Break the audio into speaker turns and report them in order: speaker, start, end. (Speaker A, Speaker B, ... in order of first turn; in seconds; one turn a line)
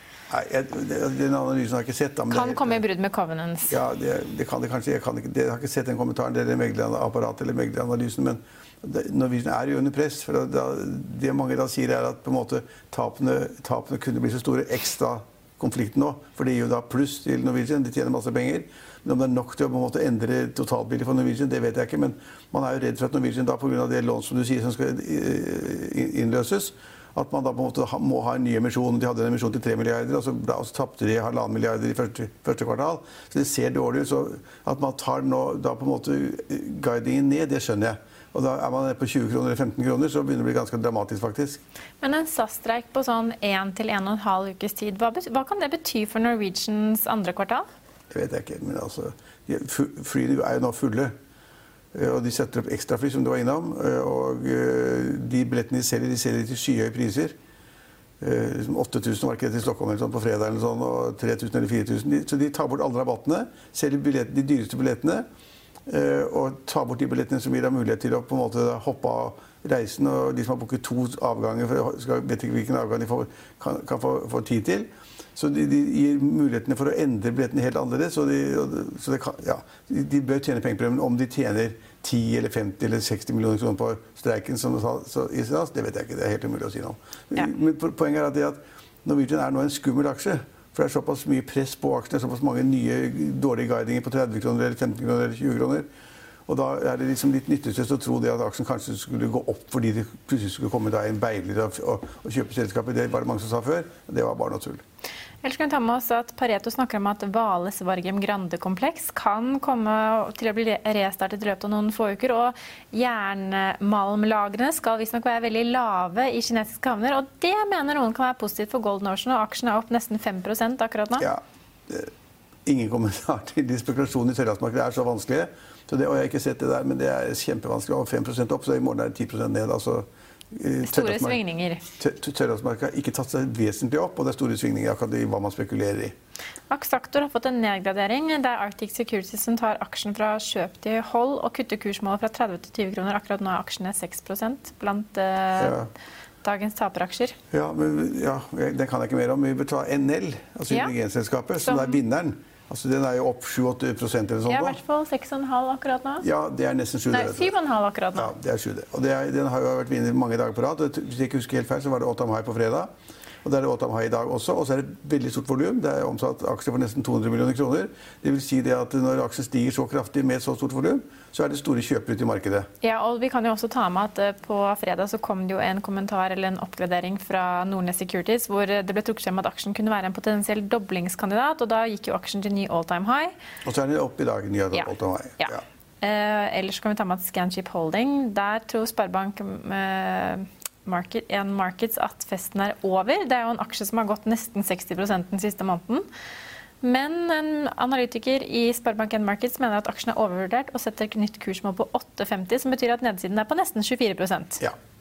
Speaker A: 0.3-2.8
Speaker B: 2.3-3.8
Speaker A: 3.7-41.6
Speaker B: 42.0-47.7
Speaker A: 48.1-51.1
Speaker A: 51.9-57.4
Speaker A: 58.2-65.2
Speaker A: 65.9-95.9
Speaker A: 96.5-104.8
Speaker B: 105.4-121.3
Speaker A: 121.2-122.1
Speaker A: 122.7-131.4
Speaker B: 130.8-131.8
Speaker A: 132.0-136.1
Speaker B: 136.7-145.8
Speaker A: 145.6-145.9
Speaker B: 146.4-147.3
Speaker A: 147.5-154.8
Speaker B: 151.6-152.0
Speaker B: 154.5-156.3
Speaker A: 156.2-157.5
Speaker B: 157.1-158.3
Speaker A: 158.2-162.9
Speaker A: 163.4-172.7
Speaker B: 172.8-183.3
Speaker A: 183.7-185.6
Speaker B: 184.7-196.1
Speaker B: 196.8-204.6